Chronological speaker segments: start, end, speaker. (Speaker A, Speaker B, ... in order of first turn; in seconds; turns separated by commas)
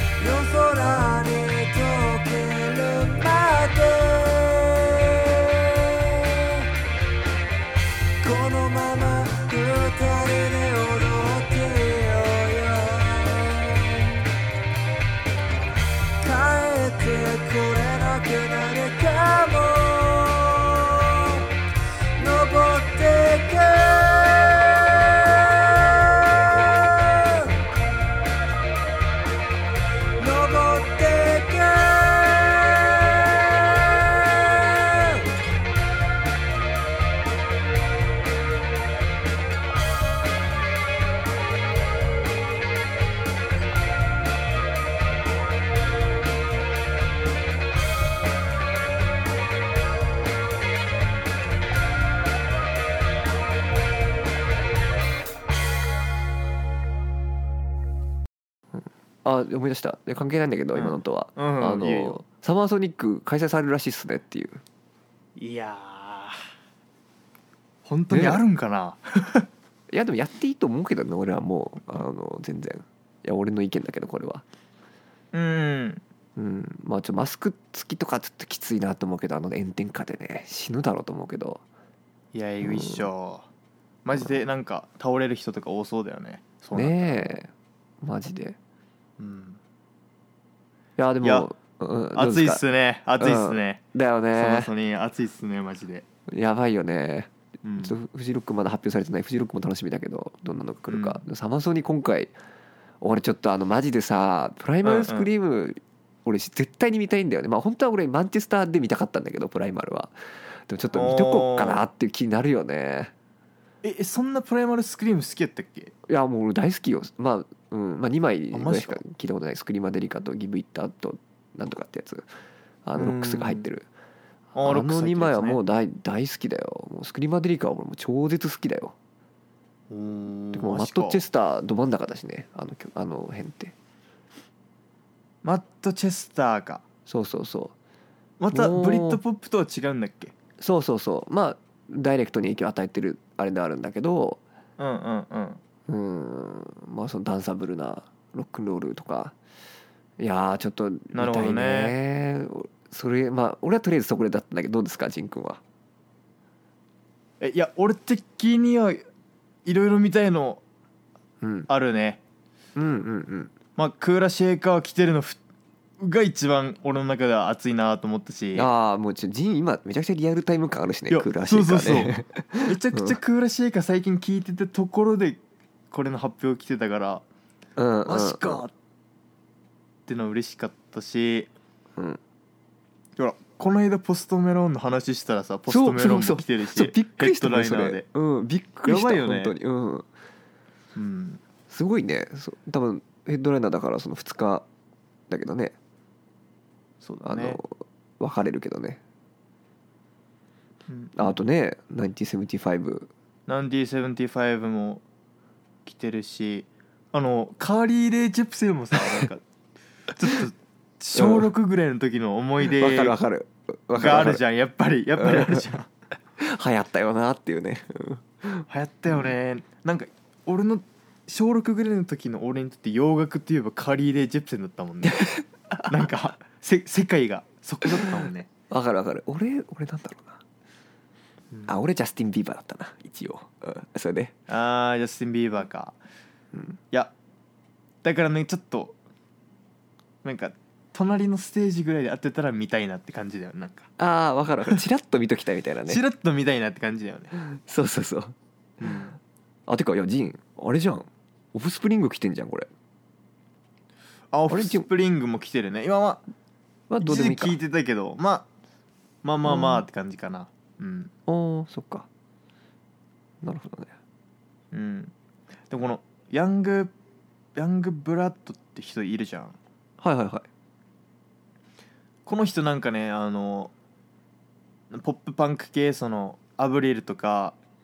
Speaker A: 0.2-6.6, Speaker A: 8.2-14.2, Speaker A: 16.2-21.4, Speaker A: 22.2-27.5, Speaker A: 30.2-35.3, Speaker B: 58.7-64.6, Speaker C: 60.7-62.2, Speaker C: 65.4-66.4, Speaker C: 67.8-69.5, Speaker B: 68.1-68.4, Speaker B: 69.9-74.4, Speaker C: 75.3-76.0, Speaker B: 76.3-81.6, Speaker C: 82.3-83.5, Speaker B: 82.6-83.1, Speaker C: 84.0-87.3, Speaker B: 86.7-87.5, Speaker B: 88.0-88.6, Speaker C: 89.2-89.6, Speaker B: 91.0-92.6, Speaker C: 91.2-91.5, Speaker C: 92.1-93.8, Speaker B: 93.2-94.7, Speaker C: 94.3-96.0, Speaker B: 96.3-102.3, Speaker C: 97.6-98.0, Speaker C: 100.9-101.2, Speaker B: 103.0-110.2, Speaker C: 104.8-105.3, Speaker B: 110.7-113.1, Speaker C: 110.9-111.8, Speaker C: 113.8-115.9, Speaker B: 116.1-122.3, Speaker C: 118.5-119.0, Speaker B: 122.8-123.9, Speaker C: 123.0-123.7, Speaker C: 124.5-125.6, Speaker B: 124.6-128.9, Speaker C: 129.9-131.2, Speaker B: 130.5-133.7, Speaker C: 135.4-136.8, Speaker B: 137.1-137.7, Speaker C: 138.4-140.3, Speaker B: 138.5-139.2, Speaker B: 140.6-144.4, Speaker C: 144.8-145.6, Speaker B: 145.9-149.3, Speaker B: 150.2-155.6, Speaker C: 151.1-151.9, Speaker C: 157.4-159.0, Speaker C: 159.6-160.6, Speaker B: 161.4-161.7, Speaker C: 161.7-162.2, Speaker B: 162.8-163.5, Speaker C: 163.8-165.4, Speaker C: 166.0-168.7, Speaker B: 168.5-173.2, Speaker C: 171.1-177.2, Speaker B: 177.8-178.6, Speaker C: 178.0-178.7, Speaker C: 180.1-181.5, Speaker C: 183.2-188.0, Speaker B: 185.7-190.1, Speaker C: 188.8-189.5, Speaker C: 190.9-191.4, Speaker B: 191.7-194.6, Speaker B: 195.3-195.7, Speaker C: 197.0-197.6, Speaker B: 197.2-197.7, Speaker B: 198.2-199.0, Speaker C: 200.9-201.3, Speaker B: 201.2-203.1, Speaker C: 203.5-205.0, Speaker C: 205.8-209.4, Speaker C: 210.1-213.2, Speaker B: 211.2-211.5, Speaker B: 212.8-214.4, Speaker C: 213.9-215.9, Speaker B: 215.2-215.7, Speaker B: 216.4-218.7, Speaker C: 218.7-225.3, Speaker B: 225.2-226.1, Speaker C: 225.9-228.5, Speaker B: 228.7-230.4, Speaker B: 231.7-234.3, Speaker C: 234.5-236.0, Speaker B: 236.5-236.8, Speaker C: 238.0-238.9, Speaker C: 240.2-243.9, Speaker B: 244.0-246.0, Speaker C: 245.9-247.3, Speaker B: 247.4-248.3, Speaker C: 248.8-249.2, Speaker B: 249.7-252.7, Speaker C: 254.3-256.2, Speaker B: 254.5-254.9, Speaker B: 256.9-257.6, Speaker C: 257.0-258.5, Speaker C: 259.2-261.1, Speaker B: 259.4-259.9, Speaker B: 261.3-262.1, Speaker B: 263.4-263.9, Speaker C: 264.7-265.1, Speaker C: 265.7-266.9, Speaker C: 267.6-269.6, Speaker B: 270.0-270.4, Speaker C: 272.2-273.7, Speaker C: 274.9-277.6